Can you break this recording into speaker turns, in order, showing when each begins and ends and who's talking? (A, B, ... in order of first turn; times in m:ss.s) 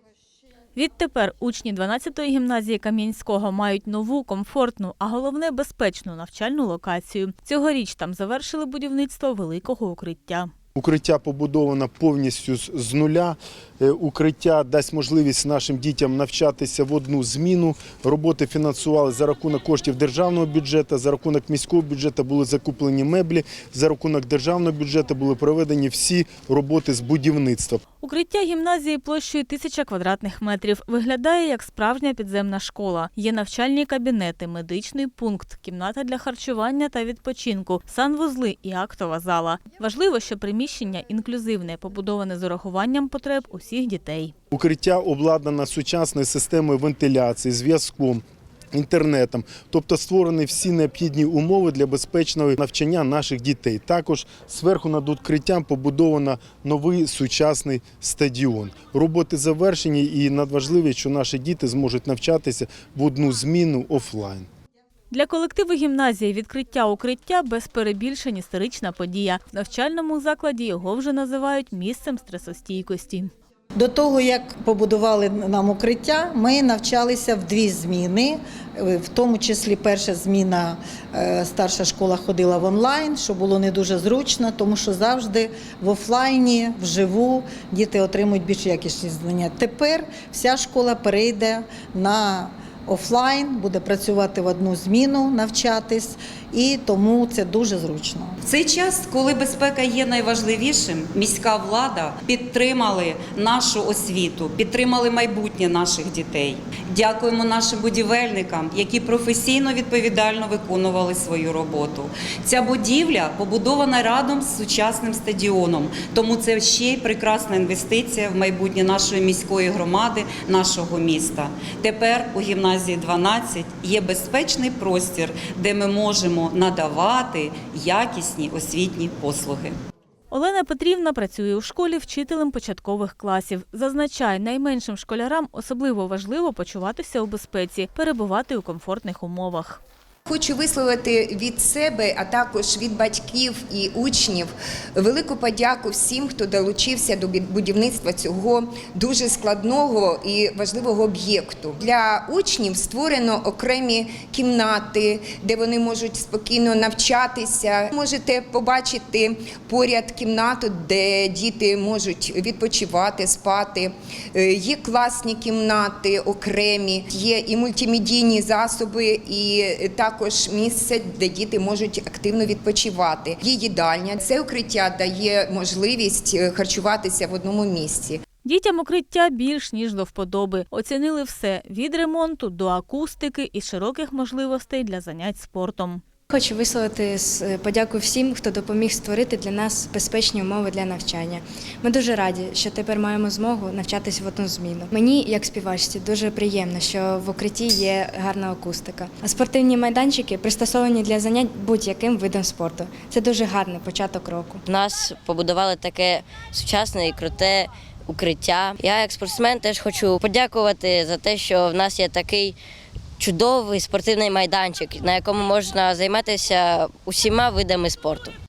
0:00.8-0:10.5 A
0:10.8-0:27.8 B
0:28.0-0:44.3 A
0:44.5-0:48.2 B
0:48.7-1:04.5 B
1:05.1-1:13.3 A
1:13.8-1:38.4 C
1:38.4-2:09.7 D
2:10.3-2:19.8 A
2:20.3-2:58.2 E
2:58.4-3:06.0 A
3:06.3-3:24.6 F
3:24.7-3:32.6 G
3:33.2-3:38.3 G